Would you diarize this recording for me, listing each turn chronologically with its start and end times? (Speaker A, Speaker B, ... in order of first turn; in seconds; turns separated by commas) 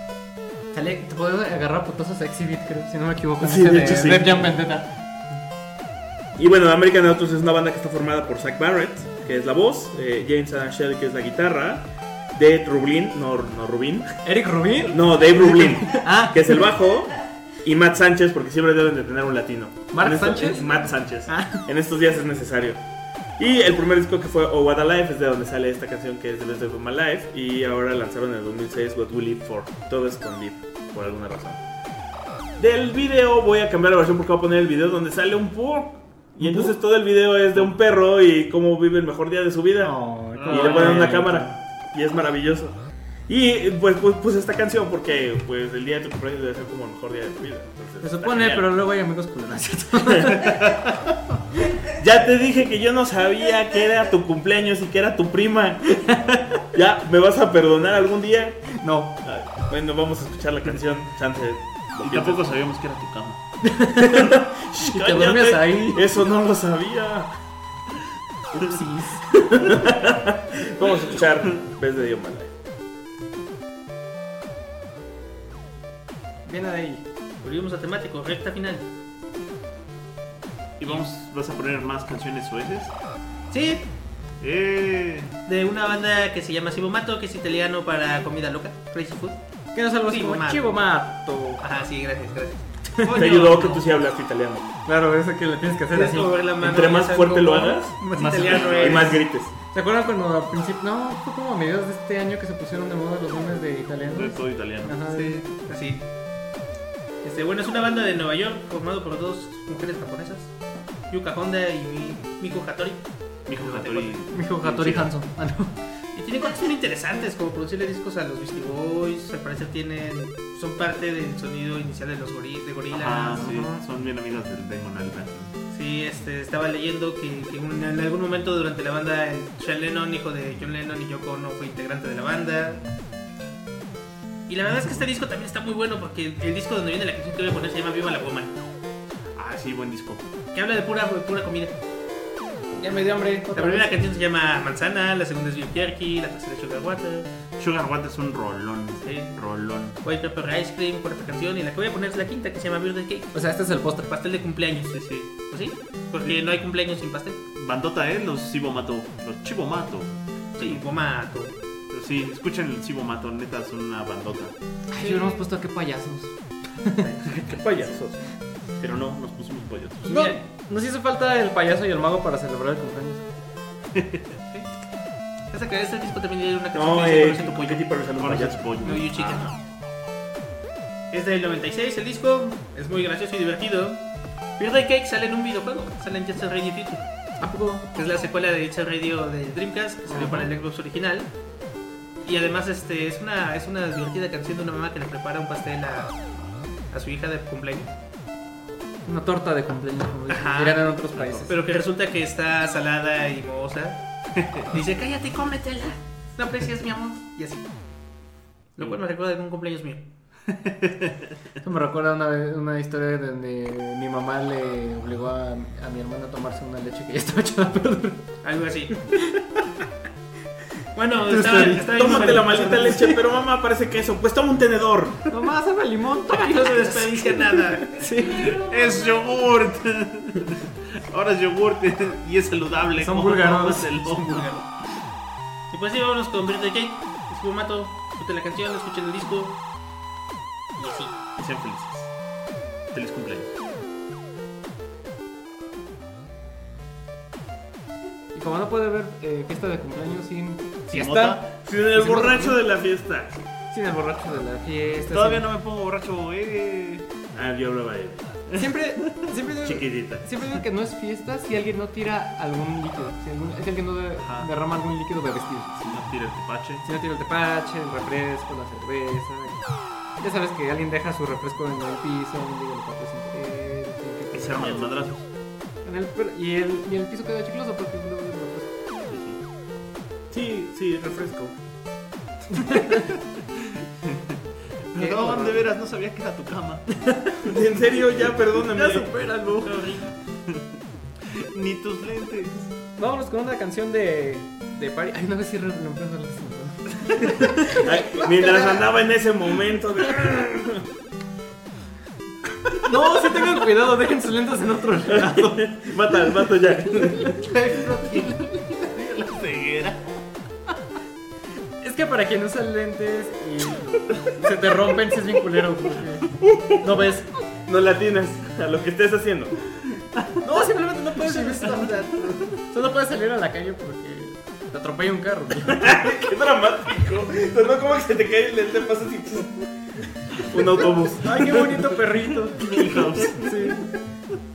Speaker A: 0.7-4.9, Speaker B: 3.4-4.5, Speaker B: 6.3-14.1, Speaker A: 14.2-16.6, Speaker B: 14.8-22.8, Speaker A: 19.9-21.6, Speaker B: 23.4-31.6, Speaker B: 32.6-48.6, Speaker A: 36.4-36.7, Speaker A: 39.8-41.5, Speaker C: 40.4-41.3, Speaker A: 48.0-50.6, Speaker C: 50.4-50.8, Speaker B: 51.9-62.6, Speaker A: 58.7-59.2, Speaker C: 62.0-63.5, Speaker A: 63.6-66.0, Speaker B: 64.0-67.3, Speaker A: 68.5-69.5, Speaker B: 69.5-72.5, Speaker A: 76.4-77.0, Speaker D: 77.4-78.9, Speaker C: 80.8-82.9, Speaker D: 83.5-83.9, Speaker C: 84.4-85.3, Speaker D: 85.5-89.4, Speaker A: 89.7-91.6, Speaker D: 90.0-90.8, Speaker D: 91.6-93.8, Speaker B: 93.1-94.7, Speaker A: 94.8-96.3, Speaker D: 95.9-99.2, Speaker B: 96.6-99.5, Speaker C: 98.2-99.0, Speaker A: 99.6-105.5, Speaker C: 104.1-105.0, Speaker D: 105.1-106.0, Speaker D: 107.2-110.5, Speaker D: 111.1-114.2, Speaker C: 113.5-115.1, Speaker A: 114.3-115.8, Speaker D: 116.1-123.5, Speaker C: 122.9-125.5, Speaker A: 123.4-123.8, Speaker D: 125.7-132.8, Speaker D: 134.5-138.5, Speaker C: 134.8-135.0, Speaker C: 139.3-140.3, Speaker D: 140.5-141.8, Speaker A: 142.8-143.9, Speaker D: 143.5-147.3, Speaker C: 147.6-150.0, Speaker D: 149.0-149.4, Speaker D: 150.0-157.4, Speaker A: 153.3-154.1, Speaker C: 154.9-155.3, Speaker C: 157.5-160.8, Speaker D: 160.6-161.5, Speaker C: 161.9-164.5, Speaker A: 164.9-167.2, Speaker D: 165.0-165.4, Speaker C: 167.2-168.1, Speaker B: 167.5-168.1, Speaker C: 168.8-170.2, Speaker A: 170.0-173.2, Speaker D: 170.1-170.4, Speaker C: 173.9-174.4, Speaker D: 175.5-177.8, Speaker B: 176.7-178.7, Speaker C: 177.5-179.6, Speaker D: 178.8-179.5, Speaker D: 181.1-184.0, Speaker D: 184.6-187.1, Speaker A: 187.4-187.8, Speaker D: 187.9-191.3, Speaker A: 190.1-190.5, Speaker D: 192.2-196.2, Speaker D: 196.9-197.9, Speaker A: 199.1-201.5, Speaker D: 200.3-204.1, Speaker C: 201.2-201.4, Speaker C: 204.4-204.6, Speaker D: 204.6-207.7, Speaker D: 208.8-210.0, Speaker C: 210.5-211.2, Speaker A: 211.6-218.3, Speaker D: 218.4-219.0, Speaker A: 219.1-219.4, Speaker D: 220.9-223.2, Speaker A: 221.2-222.5, Speaker B: 221.9-225.3, Speaker A: 225.3-228.6, Speaker D: 226.3-228.0, Speaker C: 228.2-235.0, Speaker A: 233.0-234.2, Speaker D: 234.3-234.6, Speaker D: 235.7-239.6, Speaker D: 240.8-241.2, Speaker C: 241.4-242.1, Speaker C: 242.9-243.6, Speaker A: 248.3-252.6, Speaker C: 250.9-251.4, Speaker B: 251.5-253.4, Speaker A: 253.7-255.5, Speaker C: 255.1-257.1, Speaker B: 257.3-258.4, Speaker A: 258.5-266.1, Speaker B: 259.6-260.3, Speaker C: 264.2-264.5, Speaker C: 265.8-266.9, Speaker A: 266.8-275.0, Speaker C: 274.3-275.2, Speaker A: 275.8-278.7, Speaker C: 279.1-279.4, Speaker B: 280.3-281.6, Speaker C: 282.8-284.4, Speaker C: 284.9-287.0, Speaker A: 284.9-285.6, Speaker A: 287.0-287.4, Speaker B: 287.4-289.1, Speaker A: 288.8-289.7, Speaker D: 289.5-290.1, Speaker C: 290.4-290.6, Speaker C: 291.2-292.7, Speaker A: 293.0-298.9, Speaker B: 297.7-300.8, Speaker A: 302.8-305.6, Speaker B: 305.1-307.5, Speaker A: 307.3-308.3, Speaker D: 307.3-308.4, Speaker C: 308.1-310.1, Speaker A: 311.8-317.3, Speaker B: 316.4-317.0, Speaker B: 317.6-319.7, Speaker A: 320.4-326.0, Speaker D: 320.5-322.4, Speaker B: 325.7-329.7, Speaker B: 330.3-331.8, Speaker A: 331.1-333.9, Speaker C: 332.1-333.8